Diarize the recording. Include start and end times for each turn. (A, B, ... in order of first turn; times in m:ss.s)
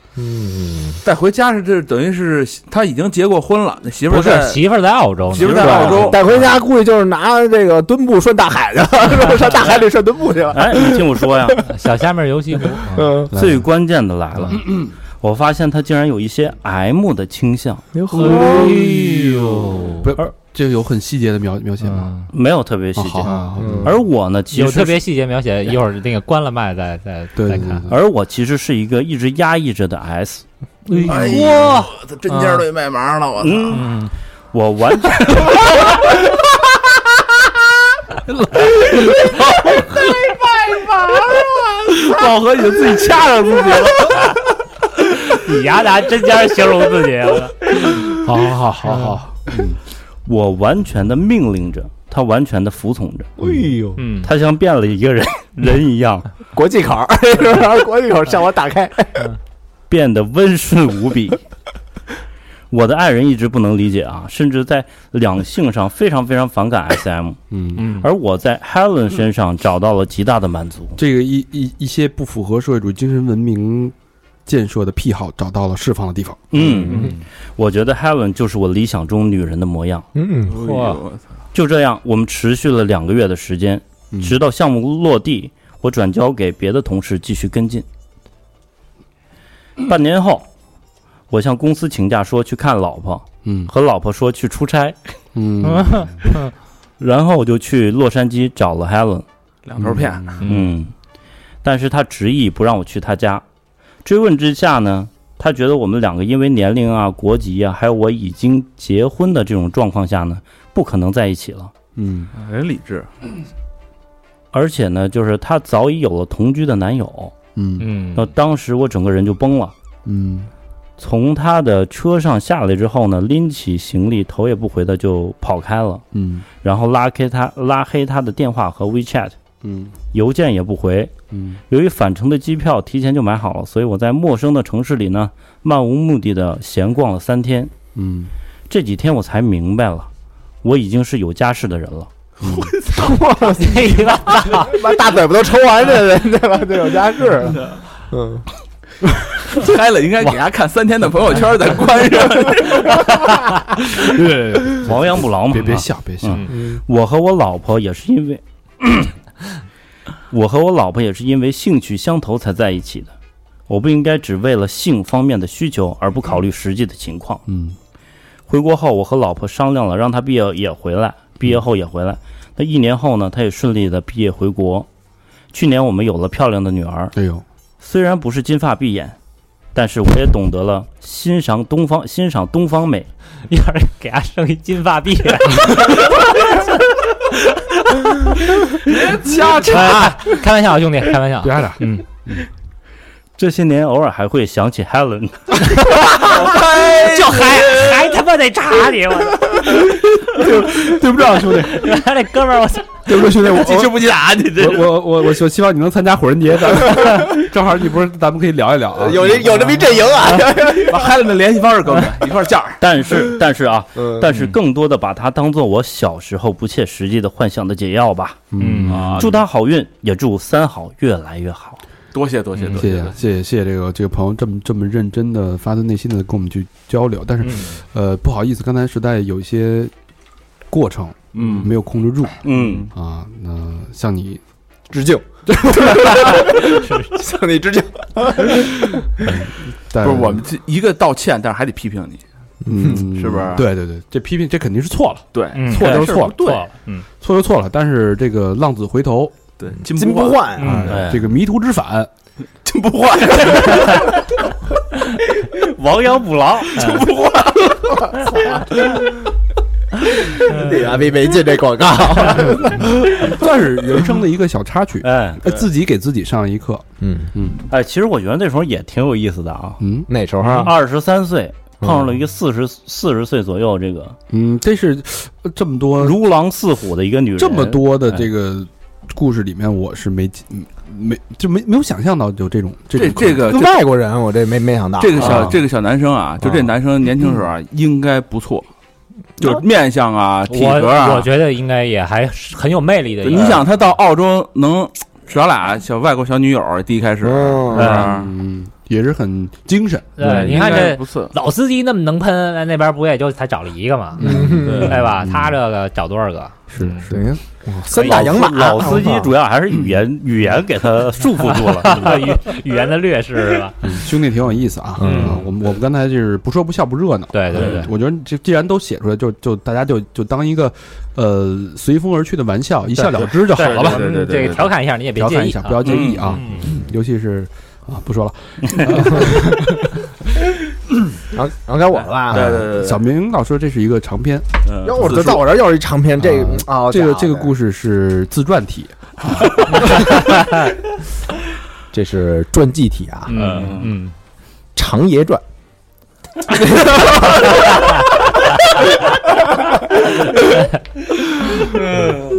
0:00.2-0:01.0 A
0:01.0-0:04.6 B
0:04.1-0:06.2 C
0:05.3-0:06.3 B
0:05.5-0:11.6 A
0:10.5-0:11.6 D
0:11.6-0:13.1 C
0:12.7-0:13.3 A
0:13.3-0:13.6 E
0:13.3-0:17.8 D
0:14.5-0:14.9 E
0:17.9-0:18.9 A
0:18.1-0:20.1 C
0:18.4-0:18.9 E
0:20.0-0:22.1 E
0:21.8-0:22.3 C
0:22.3-0:25.0 D
0:23.0-0:23.9 E
0:23.6-0:23.9 A
0:24.5-0:27.8 C
0:27.4-0:28.0 E
0:27.9-0:30.4 D
0:30.9-0:32.6 C
0:31.0-0:33.8 B
0:33.4-0:33.9 D
0:33.7-0:34.1 C
0:34.5-0:36.1 D
0:38.4-0:39.3 E
0:38.7-0:44.3 B
0:45.2-0:48.0 C
0:48.0-0:49.8 E
0:48.8-0:49.2 C
0:50.2-0:53.4 D
0:53.4-0:54.0 A
0:54.0-0:54.3 C
0:54.2-0:56.3 D
0:56.5-0:59.3 A
0:59.9-1:01.4 D
1:02.7-1:07.4 D
1:07.5-1:07.9 E
1:07.8-1:08.1 C
1:07.9-1:11.0 D
1:11.0-1:13.9 E
1:14.4-1:16.6 E
1:16.5-1:20.0 D
1:16.6-1:17.1 A
1:20.1-1:20.6 A
1:20.4-1:21.3 B
1:20.6-1:21.0 C
1:21.5-1:27.8 D
1:29.8-1:30.5 D
1:31.3-1:35.0 D
1:33.4-1:33.7 E
1:35.3-1:36.2 E
1:35.6-1:36.5 C
1:37.0-1:39.2 D
1:39.6-1:40.4 B
1:39.8-1:40.4 E
1:40.4-1:40.7 C
1:40.4-1:40.9 D
1:41.6-1:43.4 D
1:44.0-1:51.7 D
1:52.0-1:52.3 E
1:52.3-1:53.1 B
1:54.5-1:57.3 D
1:57.6-1:57.9 E
1:57.8-1:58.2 C
1:58.1-1:59.7 D
2:00.0-2:00.5 E
2:01.0-2:06.0 D
2:06.1-2:06.4 E
2:06.6-2:09.3 D
2:09.6-2:09.9 E
2:10.1-2:11.1 D
2:11.3-2:11.6 E
2:11.7-2:17.7 D
2:17.9-2:18.3 E
2:18.7-2:20.1 D
2:20.6-2:22.1 D
2:22.4-2:23.2 B
2:22.4-2:22.7 E
2:22.9-2:28.4 A
2:23.5-2:24.7 C
2:29.4-2:33.1 B
2:33.9-2:36.5 E
2:34.8-2:39.1 D
2:36.5-2:36.8 A
2:40.3-2:43.1 D
2:43.7-2:47.4 D
2:47.5-2:47.8 E
2:48.5-2:54.9 D
2:55.5-2:57.1 D
2:57.1-2:57.4 E
2:57.8-2:59.2 D
2:59.7-3:03.1 D
3:03.5-3:08.8 C
3:09.1-3:10.1 E
3:09.3-3:09.7 B
3:09.6-3:12.0 C
3:11.4-3:12.5 E
3:13.4-3:15.9 D
3:15.7-3:19.8 C
3:16.1-3:18.0 B
3:19.7-3:21.9 E
3:21.6-3:23.0 C
3:23.1-3:23.9 E
3:23.2-3:24.9 B
3:24.5-3:29.7 E
3:29.0-3:31.1 A
3:30.2-3:32.8 B
3:32.8-3:41.8 D
3:34.0-3:34.3 A
3:38.5-3:39.2 E
3:38.6-3:39.0 C
3:38.9-3:39.4 B
3:42.1-3:43.2 B
3:42.7-3:49.9 E
3:50.7-3:54.4 E
3:51.3-3:51.7 B
3:52.4-3:52.9 D
3:52.5-3:52.9 B
3:54.9-3:59.3 A
3:55.5-3:56.3 E
3:56.8-3:57.1 C
3:59.2-4:00.4 E
4:00.0-4:02.2 B
4:02.6-4:06.4 E
4:02.8-4:03.0 A
4:03.1-4:03.6 B
4:05.3-4:06.6 B
4:05.5-4:07.0 C
4:05.8-4:06.0 D
4:07.2-4:09.3 E
4:09.6-4:11.0 B
4:09.8-4:11.0 A
4:10.6-4:11.0 C
4:10.7-4:12.1 E
4:10.9-4:11.4 D
4:12.6-4:14.2 B
4:13.7-4:14.2 D
4:15.5-4:17.0 D
4:16.7-4:19.0 B
4:20.4-4:23.1 A
4:22.8-4:27.6 E
4:25.0-4:25.4 D
4:27.0-4:27.3 A
4:27.7-4:29.8 D
4:29.8-4:30.1 E
4:30.1-4:30.7 A
4:30.4-4:34.2 D
4:31.8-4:32.1 A
4:34.3-4:36.2 E
4:36.0-4:38.3 D
4:37.4-4:43.4 E
4:42.9-4:43.8 B
4:43.4-4:45.4 A
4:45.0-4:48.7 B
4:45.2-4:45.5 E
4:46.4-4:46.7 E
4:49.4-4:51.3 B
4:50.5-4:53.6 C
4:53.2-4:58.3 B
4:57.2-4:58.1 A
4:57.8-4:58.0 D
4:57.8-5:00.6 E
5:00.2-5:07.0 C
5:00.2-5:01.3 B
5:04.2-5:05.6 E
5:04.2-5:04.9 A
5:06.7-5:07.4 E
5:07.1-5:09.3 A
5:08.0-5:12.3 D
5:11.5-5:13.8 C
5:13.8-5:24.0 E
5:15.0-5:15.4 A
5:15.0-5:15.4 C
5:17.3-5:17.9 C
5:23.5-5:24.7 B
5:23.5-5:26.6 C
5:25.1-5:29.9 E
5:25.8-5:26.4 D
5:25.9-5:26.4 B
5:29.2-5:29.7 A
5:31.3-5:32.7 A
5:32.3-5:33.0 B
5:32.3-5:34.5 E
5:34.7-5:35.4 B
5:34.8-5:37.6 A
5:36.2-5:40.3 E
5:41.9-5:43.4 A
5:43.3-5:44.1 C
5:43.4-5:43.9 D
5:43.4-5:43.9 B
5:44.8-5:45.4 A
5:46.5-5:48.3 A
5:51.4-5:51.7 A